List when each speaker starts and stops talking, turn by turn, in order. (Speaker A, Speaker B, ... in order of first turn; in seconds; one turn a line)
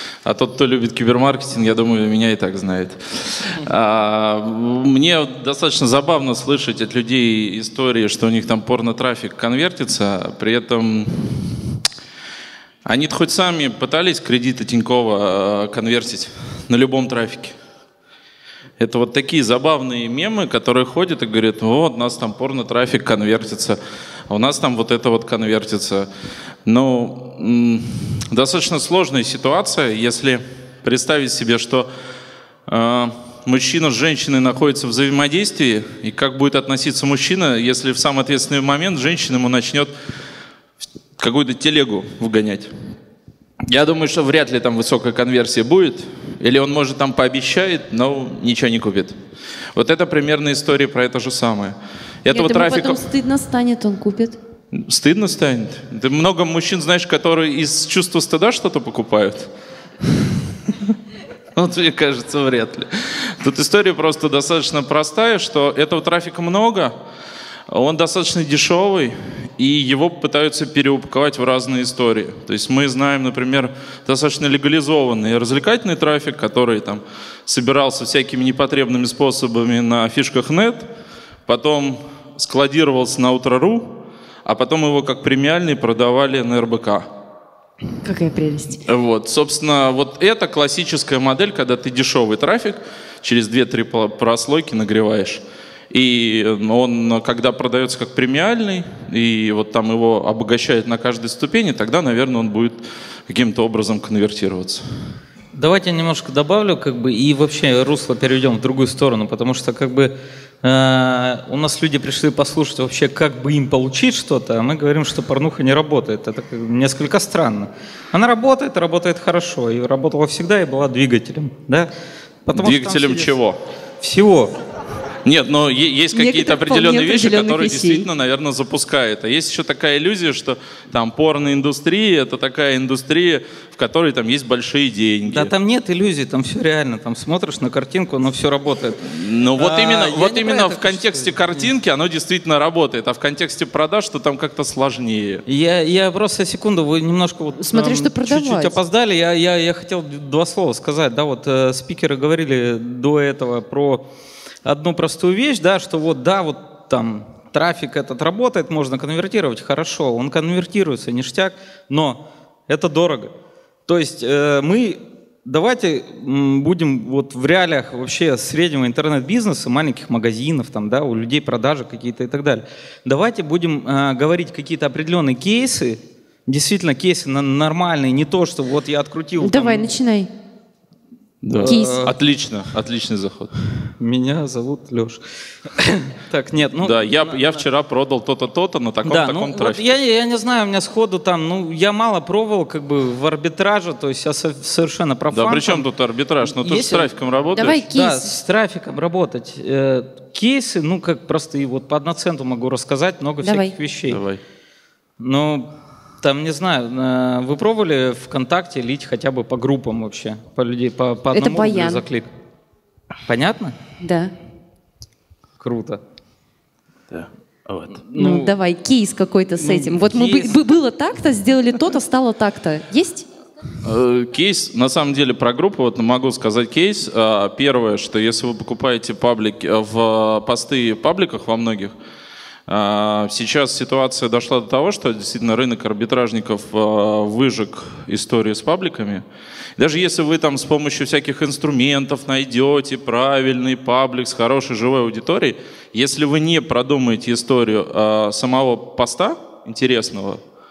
Speaker A: 0.2-11.6
Speaker A: 12.8-17.6
Speaker A: 18.8-26.1
Speaker A: 26.6-31.9
Speaker A: 32.7-39.9
Speaker A: 41.2-42.7
Speaker A: 43.6-49.1
Speaker A: 49.8-53.0
Speaker B: 52.3-54.4
Speaker A: 54.7-59.5
Speaker A: 61.5-66.9
Speaker A: 67.7-80.9
Speaker A: 81.5-87.1
Speaker B: 88.0-88.8
Speaker A: 88.8-104.8
Speaker C: 105.5-121.9
Speaker C: 122.5-123.3
Speaker A: 122.5-123.6
Speaker C: 124.0-124.5
Speaker A: 125.2-135.5
Speaker B: 126.1-128.1
Speaker C: 135.3-141.7
Speaker A: 139.2-145.4
Speaker C: 145.5-154.1
Speaker B: 147.6-148.8
Speaker C: 154.7-163.3
Speaker C: 163.9-179.8
Speaker B: 179.4-180.3
Speaker A: 181.4-183.5
Speaker C: 181.6-182.1
Speaker B: 181.6-182.0
Speaker C: 184.0-185.2
Speaker C: 185.8-187.6
Speaker A: 186.8-189.8
Speaker C: 189.0-195.9
Speaker A: 195.3-197.8
Speaker C: 196.4-197.1
Speaker B: 197.6-198.3
Speaker C: 197.8-204.2
Speaker B: 203.4-203.7
Speaker A: 204.1-204.4
Speaker C: 205.2-205.7
Speaker C: 206.2-212.3
Speaker B: 211.3-212.0
Speaker C: 213.3-213.7
Speaker B: 214.0-214.3
Speaker C: 215.6-216.0
Speaker C: 217.8-218.5
Speaker B: 218.2-223.2
Speaker C: 219.6-220.6
Speaker A: 223.8-231.9
Speaker A: 232.7-239.2
Speaker A: 239.8-250.4